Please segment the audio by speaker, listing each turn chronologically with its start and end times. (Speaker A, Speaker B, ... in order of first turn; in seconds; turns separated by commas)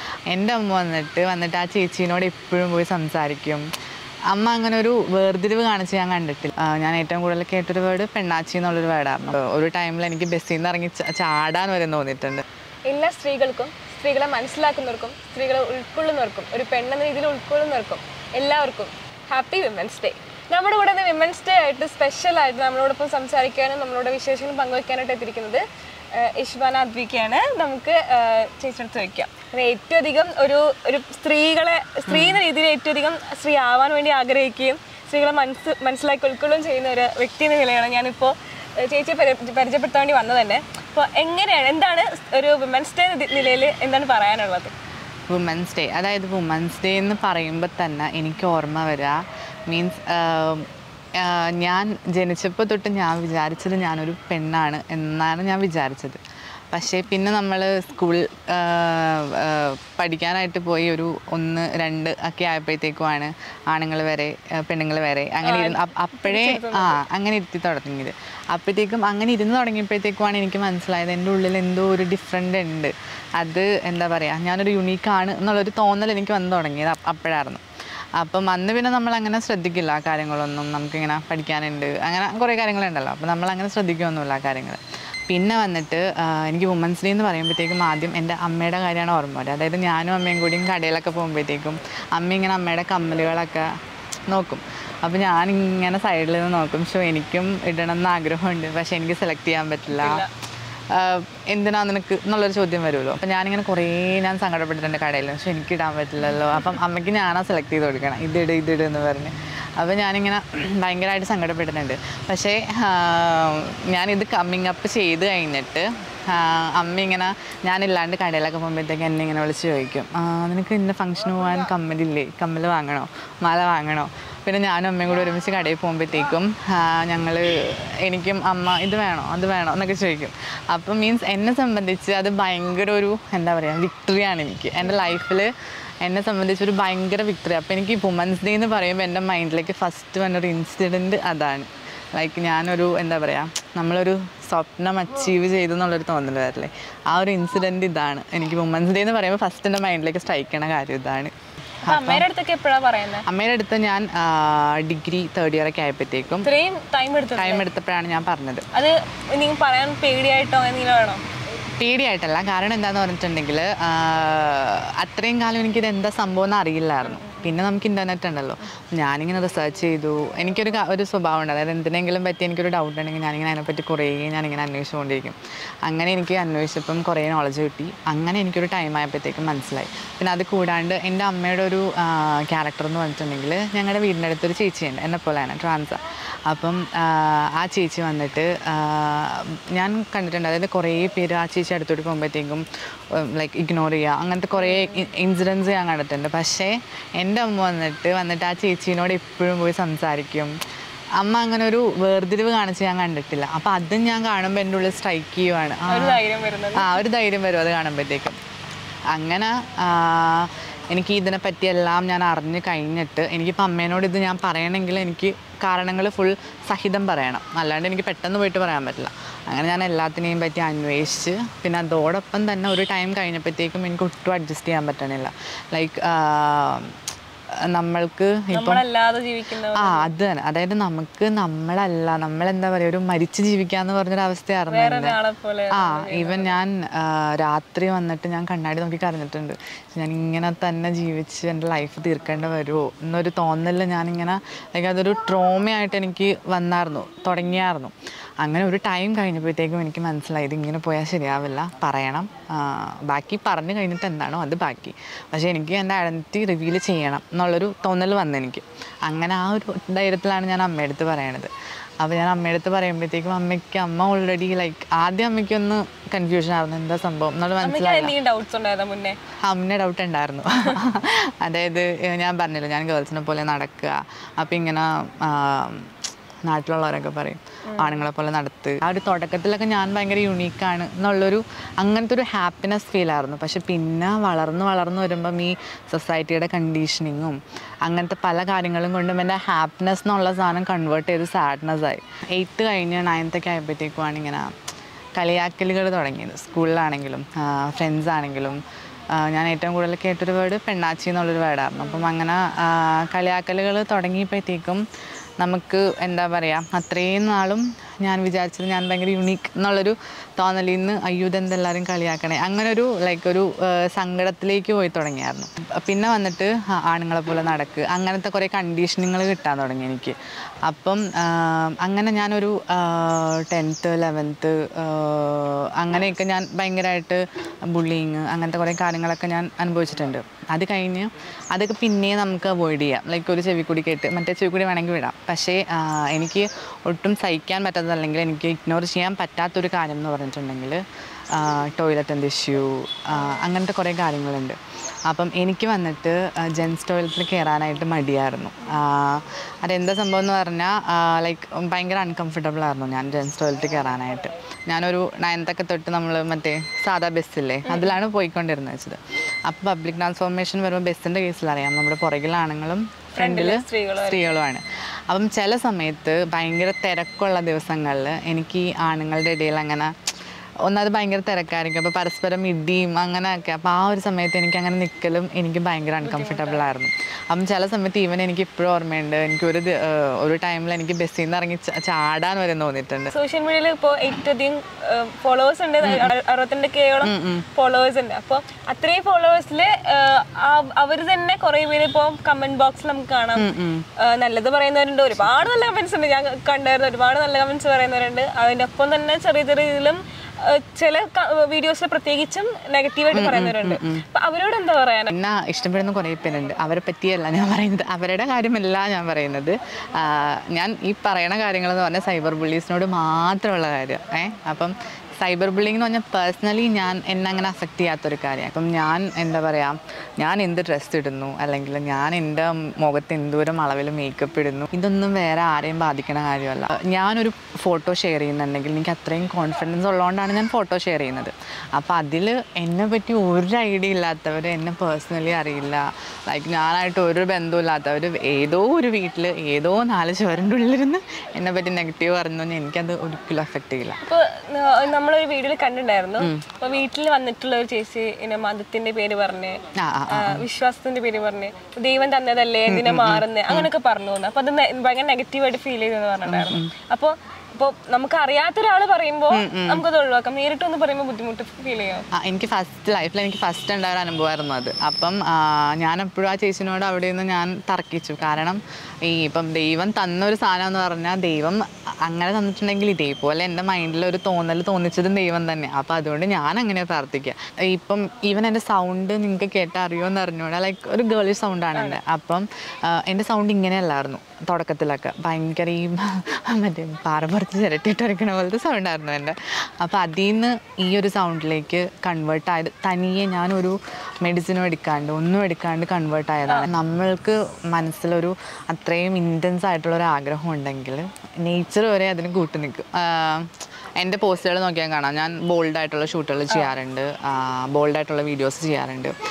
Speaker A: 0.3-3.7, Speaker A: 4.3-12.4, Speaker B: 12.9-44.7, Speaker A: 32.1-32.4, Speaker A: 45.3-49.2, Speaker A: 49.7-56.2, Speaker A: 56.7-77.6, Speaker B: 65.4-67.0, Speaker A: 78.2-93.7, Speaker A: 94.3-100.2, Speaker B: 99.9-100.3, Speaker A: 100.9-135.5, Speaker B: 134.8-135.1, Speaker A: 136.0-151.3, Speaker A: 151.8-152.2, Speaker B: 151.8-153.3, Speaker A: 153.2-156.5, Speaker B: 156.4-157.7, Speaker A: 157.3-158.7, Speaker B: 158.7-161.2, Speaker A: 161.8-200.5, Speaker B: 167.0-167.5, Speaker B: 194.6-195.0, Speaker A: 201.2-206.2, Speaker B: 205.9-207.0, Speaker A: 206.8-208.4, Speaker A: 209.1-226.9, Speaker A: 227.7-228.8, Speaker B: 228.5-230.1, Speaker A: 229.7-235.2, Speaker B: 234.7-236.5, Speaker A: 235.7-268.1, Speaker B: 267.6-269.2, Speaker A: 269.4-275.9, Speaker A: 276.5-294.5, Speaker B: 277.7-278.0, Speaker A: 295.2-298.6, Speaker A: 299.1-304.8, Speaker B: 301.8-302.1, Speaker A: 305.4-369.9, Speaker B: 357.6-358.0, Speaker B: 363.2-364.4, Speaker A: 370.7-383.1, Speaker B: 376.0-376.6, Speaker B: 383.1-405.1, Speaker A: 385.8-386.1, Speaker A: 387.0-387.5, Speaker A: 393.4-393.9, Speaker A: 403.1-404.0, Speaker A: 405.1-444.0, Speaker B: 444.0-449.6, Speaker A: 446.2-446.5, Speaker A: 449.8-450.4, Speaker B: 450.1-462.1, Speaker A: 452.7-453.7, Speaker A: 456.2-456.7, Speaker A: 459.3-459.8, Speaker A: 462.1-509.1